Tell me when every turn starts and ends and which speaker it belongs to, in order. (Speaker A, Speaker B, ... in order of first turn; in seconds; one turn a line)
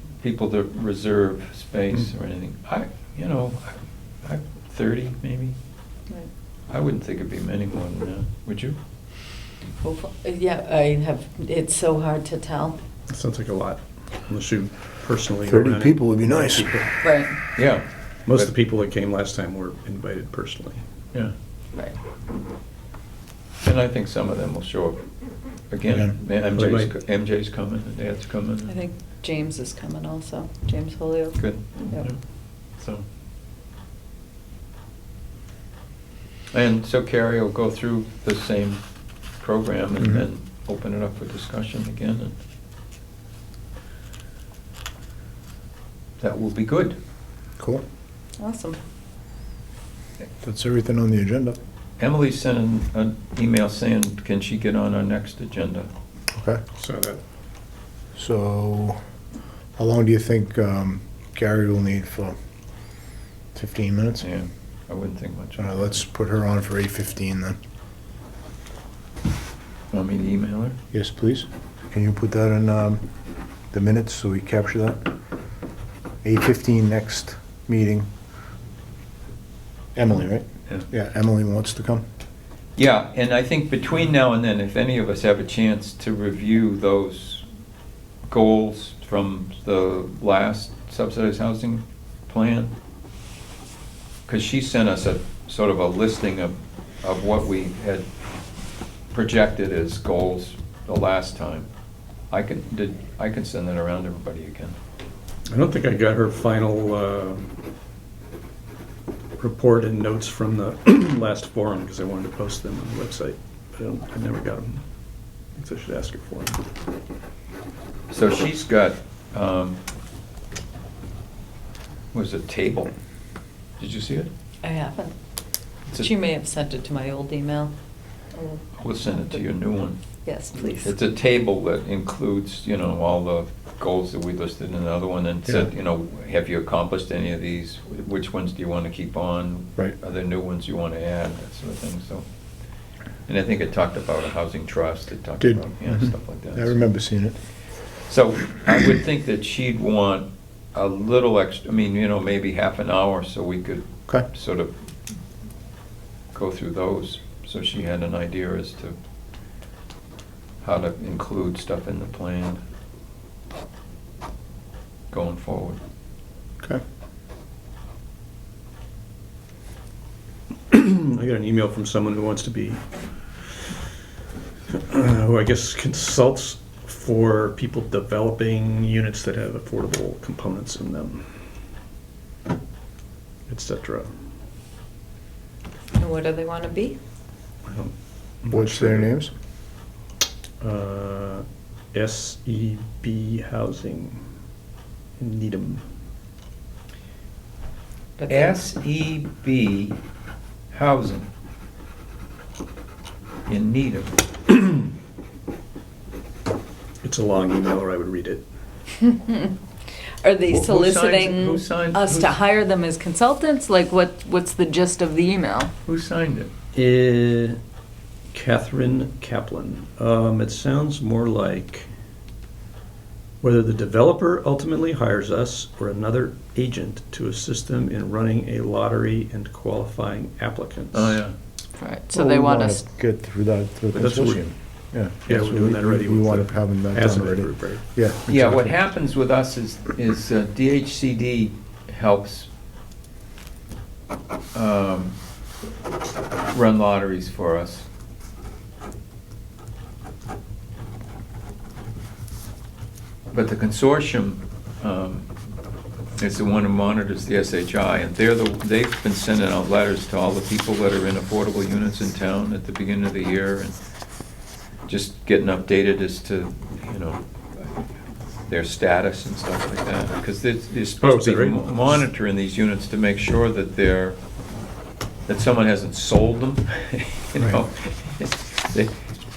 Speaker A: 0.2-5.5
Speaker A: 6.7-8.8
Speaker B: 9.8-12.8
Speaker C: 13.1-16.9
Speaker D: 15.4-16.7
Speaker B: 17.0-17.4
Speaker A: 17.5-18.5
Speaker C: 18.2-20.8
Speaker A: 23.6-25.0
Speaker A: 25.7-28.8
Speaker D: 25.9-26.1
Speaker C: 26.5-26.9
Speaker B: 28.7-32.1
Speaker A: 31.4-32.2
Speaker A: 32.8-33.0
Speaker A: 36.5-38.8
Speaker A: 39.4-42.3
Speaker D: 40.0-40.2
Speaker A: 46.2-47.0
Speaker B: 48.4-48.8
Speaker D: 50.4-51.6
Speaker A: 52.0-55.9
Speaker D: 56.3-56.6
Speaker C: 56.8-57.2
Speaker D: 58.1-59.0
Speaker D: 59.8-62.3
Speaker D: 63.5-64.2
Speaker A: 64.2-66.0
Speaker D: 65.6-67.6
Speaker A: 69.9-70.8
Speaker D: 70.9-73.0
Speaker D: 73.7-75.1
Speaker D: 76.2-78.1
Speaker D: 79.9-82.0
Speaker A: 82.8-87.4
Speaker A: 88.3-92.7
Speaker A: 94.3-98.0
Speaker A: 99.1-101.7
Speaker A: 102.3-104.8
Speaker C: 105.5-107.5
Speaker C: 109.4-114.8
Speaker C: 115.5-116.6
Speaker A: 118.1-119.8
Speaker A: 122.1-122.9
Speaker A: 123.8-124.3
Speaker B: 124.6-125.1
Speaker B: 125.9-127.7
Speaker B: 128.3-129.4
Speaker A: 128.8-130.0
Speaker B: 130.2-130.9
Speaker A: 130.7-142.2
Speaker A: 143.3-146.8
Speaker D: 145.4-147.3
Speaker A: 148.1-154.7
Speaker A: 156.3-158.9
Speaker A: 160.6-162.6
Speaker A: 165.1-165.8
Speaker C: 170.7-173.9
Speaker C: 174.7-181.4
Speaker C: 183.5-184.1
Speaker B: 185.9-187.0
Speaker C: 187.6-189.1
Speaker D: 188.5-189.3
Speaker C: 190.6-194.2
Speaker C: 195.2-195.8
Speaker B: 198.2-198.6
Speaker A: 198.3-200.0
Speaker A: 200.7-201.3
Speaker A: 203.5-204.1
Speaker C: 207.0-208.4
Speaker B: 209.0-209.5
Speaker B: 210.2-215.7
Speaker A: 210.5-212.3
Speaker A: 215.8-216.5
Speaker C: 216.7-217.6
Speaker C: 218.3-221.9
Speaker C: 223.4-231.2
Speaker A: 230.9-231.3
Speaker B: 231.8-232.8
Speaker D: 232.1-238.7
Speaker C: 233.9-234.5
Speaker C: 235.2-237.8
Speaker A: 238.3-242.5
Speaker A: 244.5-245.1
Speaker A: 246.5-247.8
Speaker A: 253.3-255.3
Speaker A: 256.2-263.8
Speaker A: 264.9-267.2
Speaker A: 268.5-274.2
Speaker C: 271.0-271.8
Speaker A: 275.3-278.9
Speaker D: 277.4-277.6